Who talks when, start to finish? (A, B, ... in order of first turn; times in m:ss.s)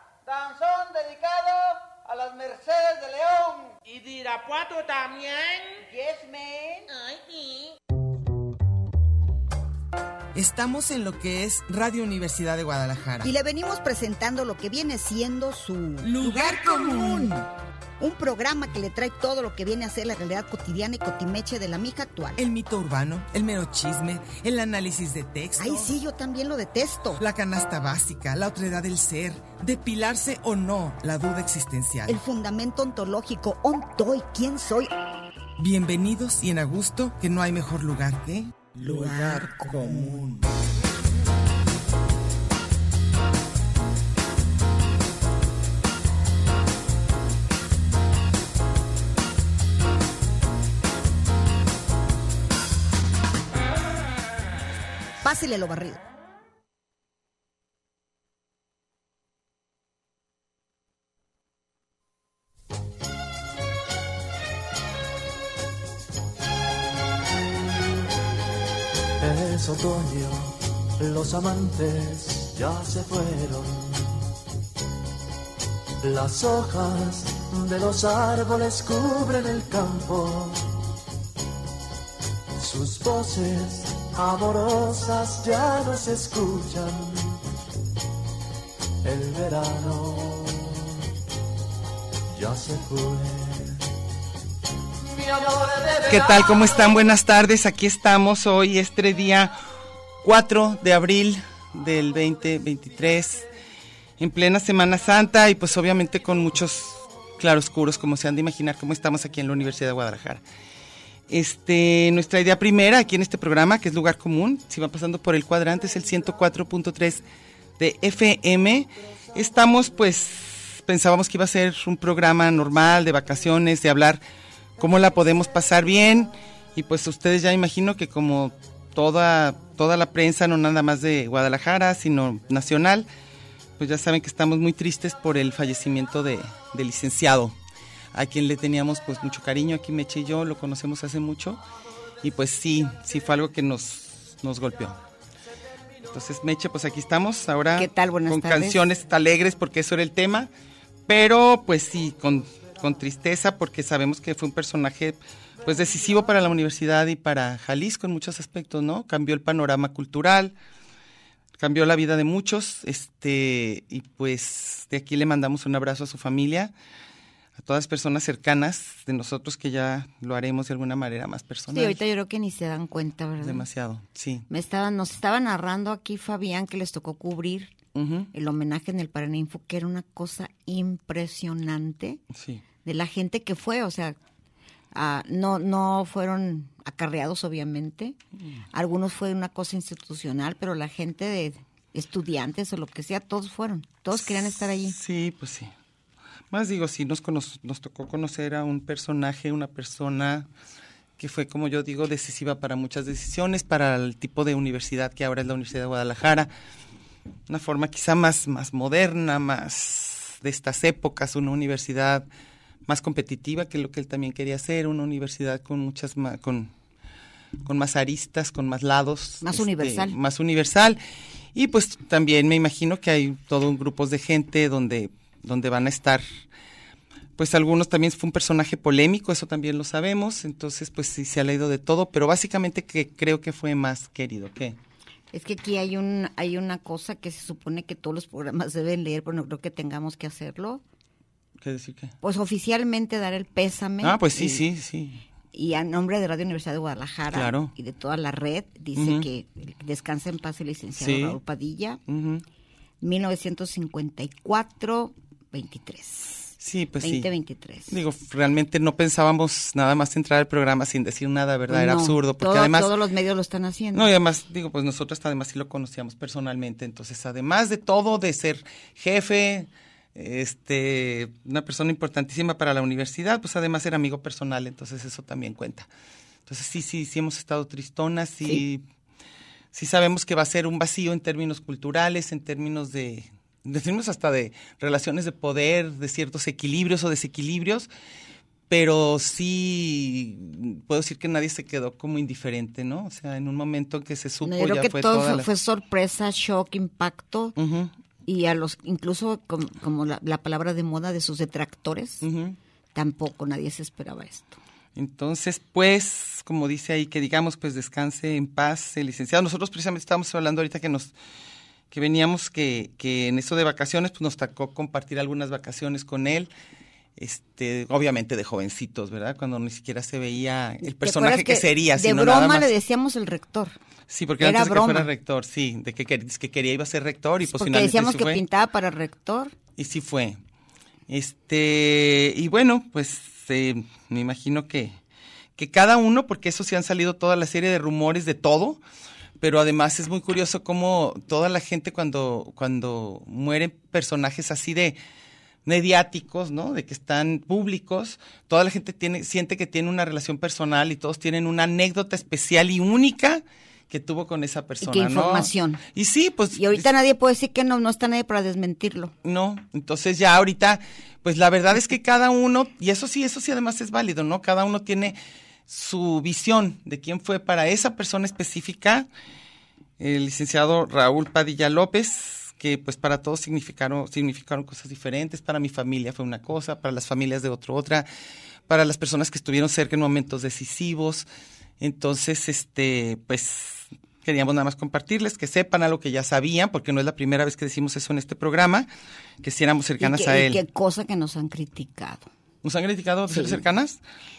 0:00.3-0:03.6 A
0:03.8-0:05.8 B
0:05.9-0:06.9 A
0:07.0-0:07.6 B
0:10.3-0:13.3 C
0:13.2-0:17.3 A
0:16.0-0:17.5 C
0:18.0-0:22.4 A
0:22.4-0:26.0 C
0:25.6-0:27.2 A
0:27.2-0:32.2 C
0:32.1-0:34.9 A
0:35.6-0:40.4 C
0:38.8-0:40.2 A
0:55.2-0:56.0 A
1:09.2-1:14.3 D
1:16.0-1:20.8 D
1:22.6-1:27.4 D
1:29.0-1:31.0 D
1:32.3-1:33.8 D
1:35.2-1:36.7 D
1:36.1-1:39.6 C
1:40.2-1:43.5 C
1:44.2-1:50.4 C
1:51.3-1:57.2 C
1:57.8-2:04.2 C
2:04.8-2:13.1 C
2:13.8-2:17.6 C
2:18.1-2:21.6 C
2:22.2-2:25.0 C
2:26.1-2:30.5 C
2:27.8-2:28.8 E
2:31.1-2:40.6 C
2:41.6-2:46.7 C
2:47.6-2:52.0 C
2:51.7-2:53.6 E
2:53.4-2:54.5 C
2:54.5-2:57.7 E
2:58.0-2:58.3 C
2:58.3-3:02.2 E
3:02.3-3:02.6 C
3:02.8-3:04.2 E
3:04.9-3:08.2 E
3:08.7-3:15.0 E
3:14.1-3:15.7 C
3:16.5-3:20.5 C
3:21.2-3:26.5 C
3:27.5-3:32.2 C
3:32.9-3:36.7 C
3:37.6-3:41.0 C
3:39.4-3:40.2 E
3:41.5-3:46.2 C
3:47.4-3:54.8 C
3:55.3-4:00.8 E
4:01.6-4:02.2 C
4:02.2-4:04.6 E
4:04.0-4:05.2 C
4:05.5-4:12.0 E
4:07.3-4:07.7 C
4:09.0-4:09.3 C
4:11.0-4:11.4 C
4:12.1-4:12.4 C
4:13.0-4:16.4 E
4:16.6-4:17.3 C
4:17.0-4:17.9 E
4:17.9-4:22.9 C
4:21.7-4:24.1 E
4:23.9-4:35.9 C
4:36.5-4:38.8 C
4:39.7-4:47.9 C
4:48.7-4:55.5 C
4:54.4-4:57.5 E
4:57.6-4:57.9 C
4:58.2-5:02.2 E
5:02.2-5:02.6 C
5:02.9-5:04.6 E
5:05.0-5:11.1 C
5:11.9-5:16.5 C
5:17.2-5:22.7 C
5:20.8-5:23.8 E
5:24.1-5:28.4 C
5:24.4-5:25.1 E
5:27.5-5:29.5 E
5:29.8-5:30.4 C
5:31.1-5:35.0 C
5:35.6-5:38.8 C
5:39.4-5:45.0 C
5:45.6-5:56.9 C
5:54.8-5:55.8 E
5:56.5-5:59.1 E
5:59.2-6:09.1 C
6:10.0-6:18.1 C
6:18.7-6:21.3 C
6:21.8-6:28.9 C
6:29.4-6:30.6 C
6:30.0-6:32.3 E
6:32.6-6:34.0 C
6:33.3-6:33.6 E